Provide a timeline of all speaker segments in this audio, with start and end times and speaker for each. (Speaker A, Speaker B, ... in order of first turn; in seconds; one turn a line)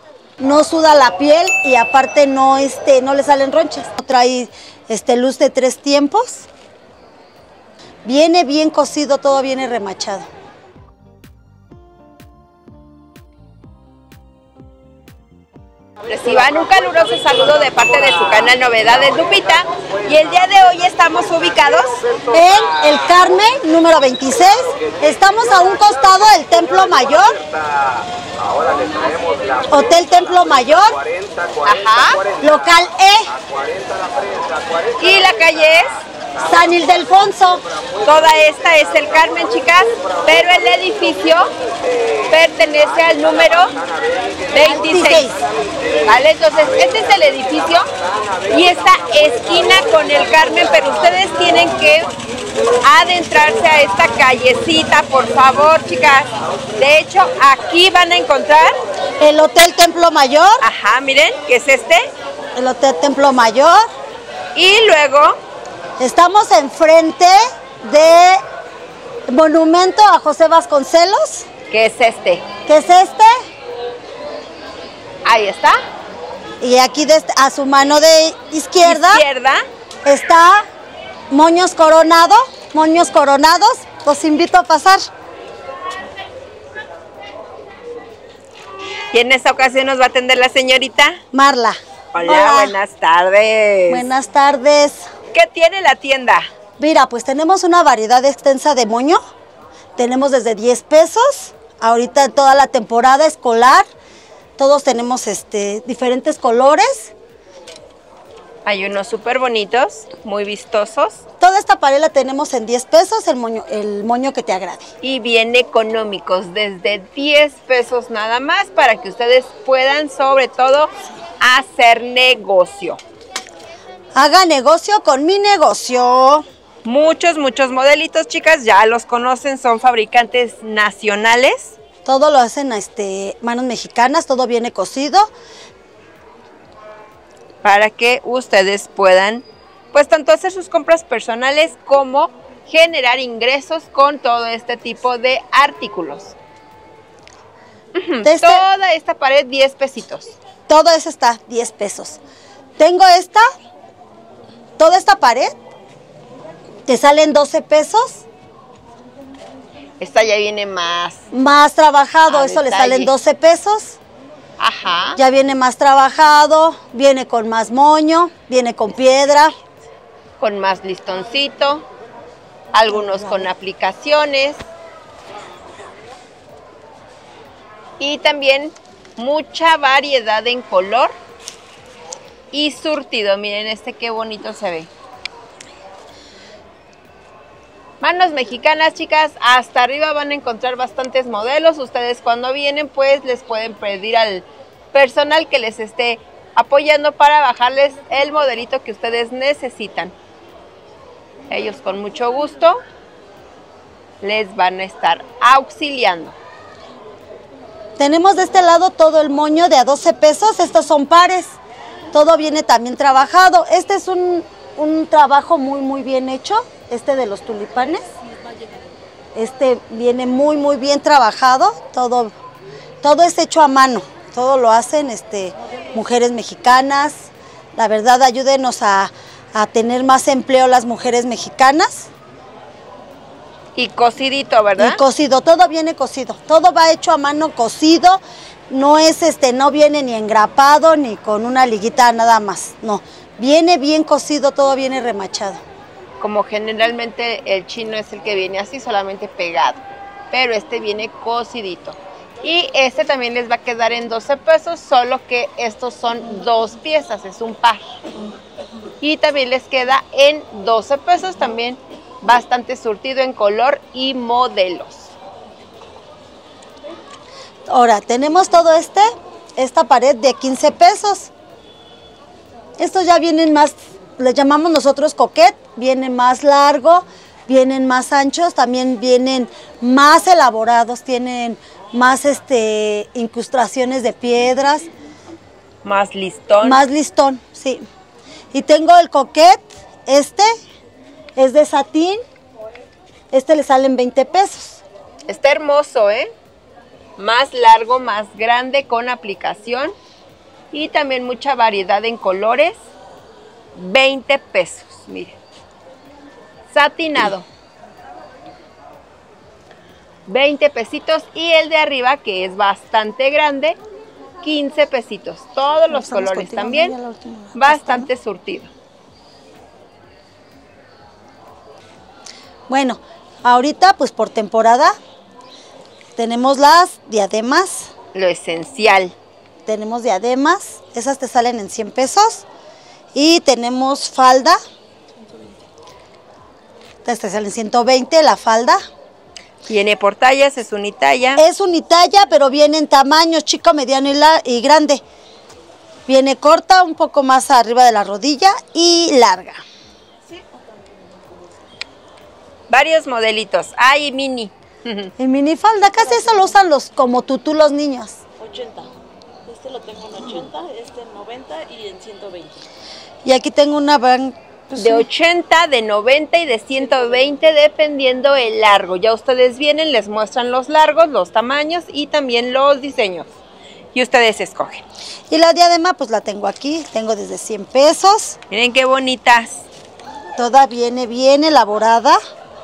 Speaker A: 0.4-6.5
Speaker A: 8.0-10.3
Speaker B: 16.1-22.1
Speaker A: 22.3-27.4
Speaker A: 29.7-31.0
Speaker B: 31.6-32.2
Speaker A: 32.4-33.3
Speaker B: 35.0-36.0
Speaker A: 36.4-37.6
Speaker B: 38.0-41.5
Speaker B: 42.3-43.8
Speaker B: 44.5-45.4
Speaker A: 44.5-45.4
Speaker B: 46.0-47.8
Speaker B: 48.5-52.1
Speaker B: 52.8-58.7
Speaker A: 59.2-60.6
Speaker B: 60.6-62.0
Speaker A: 62.5-63.8
Speaker B: 64.5-65.4
Speaker A: 66.0-68.4
Speaker A: 69.3-71.5
Speaker B: 71.7-72.4
Speaker A: 72.7-73.3
Speaker B: 75.2-75.7
Speaker A: 76.6-79.2
Speaker B: 78.8-79.6
Speaker A: 80.0-80.6
Speaker A: 81.3-85.0
Speaker B: 89.1-91.2
Speaker A: 91.3-92.8
Speaker B: 92.1-94.1
Speaker A: 93.9-95.0
Speaker B: 95.3-96.5
Speaker A: 96.8-99.2
Speaker A: 100.0-103.8
Speaker A: 104.6-107.1
Speaker B: 108.6-111.2
Speaker A: 111.4-114.9
Speaker B: 115.0-123.0
Speaker A: 124.1-126.4
Speaker B: 126.8-131.8
Speaker A: 132.0-135.3
Speaker B: 137.6-146.3
Speaker B: 147.9-150.3
Speaker A: 148.2-148.6
Speaker A: 150.7-152.2
Speaker A: 152.8-153.4
Speaker A: 154.8-155.5
Speaker A: 156.9-158.2
Speaker B: 160.0-161.2
Speaker A: 161.3-164.0
Speaker B: 162.3-163.1
Speaker B: 164.6-165.2
Speaker A: 165.2-169.5
Speaker B: 170.4-171.8
Speaker B: 172.7-174.6
Speaker A: 172.9-173.5
Speaker B: 178.0-181.1
Speaker B: 182.5-184.9
Speaker B: 188.0-200.1
Speaker B: 201.5-202.8
Speaker B: 204.2-206.3
Speaker A: 208.0-211.6
Speaker A: 212.1-218.0
Speaker A: 219.3-222.3
Speaker A: 223.0-232.1
Speaker B: 233.7-235.0
Speaker A: 234.8-238.2
Speaker A: 238.7-245.6
Speaker B: 246.2-257.9
Speaker B: 259.0-265.1
Speaker A: 267.7-271.3
Speaker A: 272.8-284.9
Speaker B: 285.8-286.8
Speaker A: 286.6-287.8
Speaker A: 288.5-290.5
Speaker A: 291.4-292.2
Speaker A: 293.3-294.8
Speaker B: 295.3-296.3
Speaker B: 297.2-299.9
Speaker B: 300.7-302.8
Speaker B: 303.7-305.4
Speaker B: 306.7-307.4
Speaker B: 310.3-313.8
Speaker B: 314.4-317.0
Speaker A: 315.9-318.1
Speaker B: 317.5-318.7
Speaker A: 322.7-324.9
Speaker A: 326.1-327.9
Speaker B: 328.1-329.1
Speaker A: 329.7-332.4
Speaker A: 333.1-334.6
Speaker A: 337.0-338.8
Speaker B: 339.7-341.4
Speaker A: 341.4-345.0
Speaker A: 346.1-349.6
Speaker B: 352.7-355.1
Speaker A: 355.2-358.2
Speaker C: 358.4-358.9
Speaker C: 359.4-362.6
Speaker A: 363.2-365.1
Speaker B: 364.8-373.3
Speaker B: 373.9-374.8
Speaker A: 375.3-378.4
Speaker B: 378.5-379.6
Speaker A: 380.4-382.2